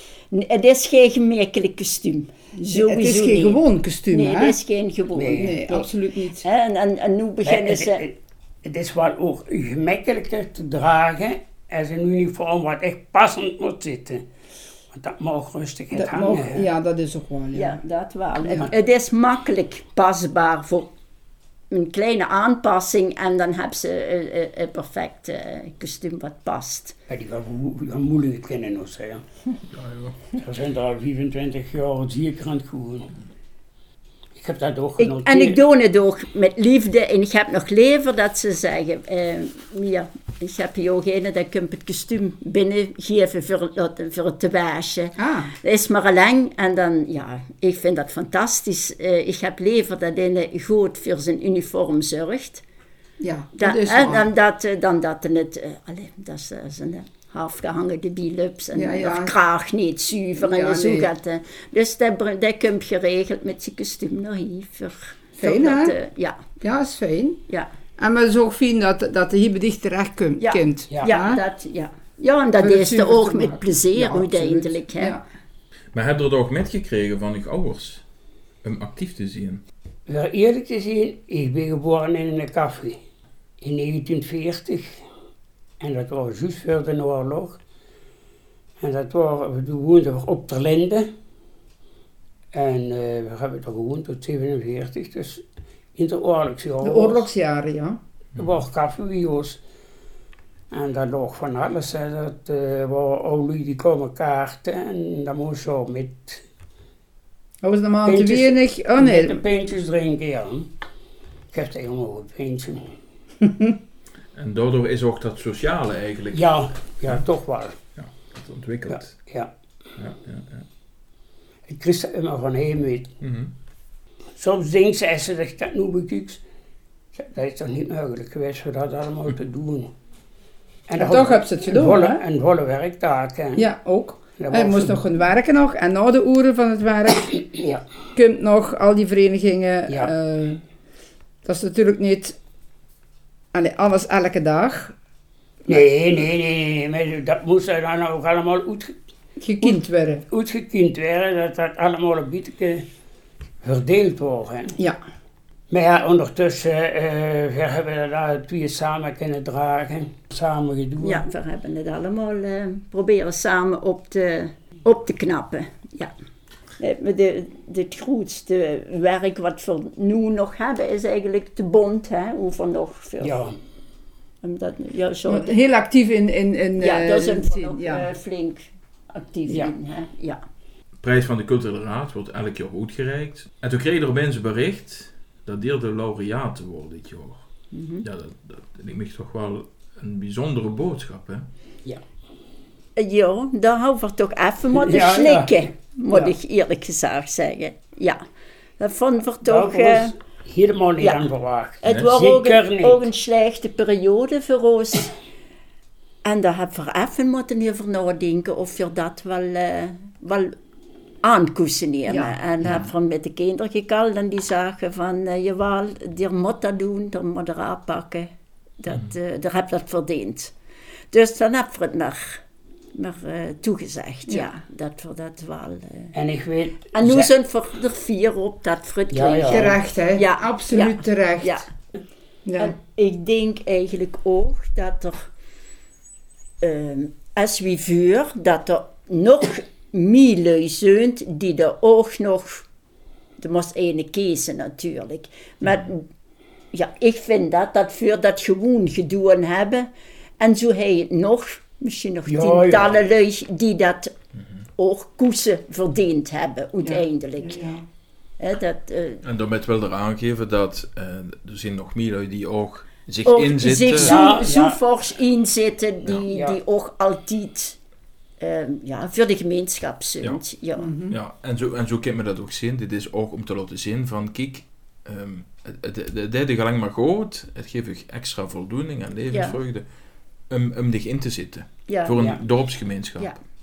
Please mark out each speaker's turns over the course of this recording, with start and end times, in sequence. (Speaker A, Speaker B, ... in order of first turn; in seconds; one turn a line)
Speaker A: 0.3-5.9
Speaker B: 2.6-4.6
Speaker C: 5.2-5.6
Speaker B: 5.3-6.5
Speaker A: 6.4-8.1
Speaker C: 7.4-14.3
Speaker C: 14.9-16.7
Speaker B: 15.9-17.8
Speaker A: 17.5-20.9
Speaker B: 18.4-18.7
Speaker A: 21.7-27.0
Speaker C: 27.1-29.2
Speaker D: 29.7-30.2
Speaker C: 30.4-33.1
Speaker C: 34.3-35.6
Speaker A: 35.0-52.6
Speaker B: 45.2-45.5
Speaker B: 53.2-54.3
Speaker A: 53.6-66.4
Speaker B: 58.8-59.3
Speaker B: 60.4-61.1
Speaker B: 65.4-66.0
Speaker B: 66.6-67.4
Speaker B: 68.0-71.4
Speaker A: 70.4-75.2
Speaker C: 70.9-71.2
Speaker B: 72.6-75.2
Speaker D: 75.9-78.0
Speaker D: 78.6-79.6
Speaker C: 80.1-83.0
Speaker C: 83.6-85.0
Speaker C: 85.8-87.6
Speaker C: 88.8-91.1
Speaker C: 92.5-95.4
Speaker C: 96.0-97.3
Speaker B: 96.8-98.0
Speaker C: 98.4-99.6
Speaker C: 100.7-106.4
Speaker B: 107.6-109.4
Speaker C: 108.0-110.7
Speaker C: 111.5-112.8
Speaker B: 113.4-113.7
Speaker D: 114.3-116.5
Speaker C: 116.3-117.8
Speaker D: 118.0-119.1
Speaker C: 118.9-119.5
Speaker D: 120.0-120.7
Speaker C: 121.7-123.2
Speaker D: 123.2-123.5
Speaker C: 124.4-126.4
Speaker C: 127.1-129.9
Speaker C: 130.9-133.7
Speaker B: 131.0-132.2
Speaker B: 133.6-137.4
Speaker C: 134.4-135.0
Speaker C: 137.3-137.8
Speaker B: 138.2-140.6
Speaker C: 139.9-140.1
Speaker B: 141.4-142.4
Speaker B: 143.5-144.9
Speaker C: 145.7-149.0
Speaker B: 149.4-150.2
Speaker C: 149.6-152.8
Speaker C: 153.6-154.8
Speaker C: 155.7-161.3
Speaker A: 161.0-166.1
Speaker A: 166.8-173.4
Speaker C: 173.2-173.6
Speaker A: 174.4-175.5
Speaker B: 175.3-178.1
Speaker A: 176.8-180.4
Speaker C: 179.5-179.7
Speaker D: 181.0-187.5
Speaker A: 187.7-188.0
Speaker D: 188.0-191.5
Speaker A: 193.0-198.2
Speaker C: 194.7-196.3
Speaker A: 198.8-200.1
Speaker C: 199.4-203.1
Speaker A: 201.0-201.3
Speaker A: 201.8-205.1
Speaker D: 201.9-202.1
Speaker A: 206.2-210.6
Speaker A: 211.2-218.3
Speaker B: 212.1-212.4
Speaker D: 212.6-212.9
Speaker A: 218.8-220.5
Speaker A: 221.1-222.4
Speaker A: 222.9-226.1
Speaker C: 226.1-227.3
Speaker A: 226.9-231.7
Speaker C: 229.1-229.8
Speaker B: 229.4-231.6
Speaker B: 232.4-232.7
Speaker A: 232.6-235.3
Speaker A: 236.6-242.6
Speaker A: 243.4-246.1
Speaker A: 246.7-249.9
Speaker A: 250.4-254.1
Speaker C: 252.3-253.0
Speaker A: 254.8-257.6
Speaker B: 256.8-257.8
Speaker A: 258.4-259.2
Speaker D: 259.2-264.2
Speaker A: 263.3-267.8
Speaker C: 263.9-264.8
Speaker C: 266.3-266.6
Speaker A: 268.4-270.9
Speaker B: 270.8-271.2
Speaker D: 271.1-279.8
Speaker A: 279.3-279.6
Speaker D: 280.5-283.3
Speaker A: 281.9-282.1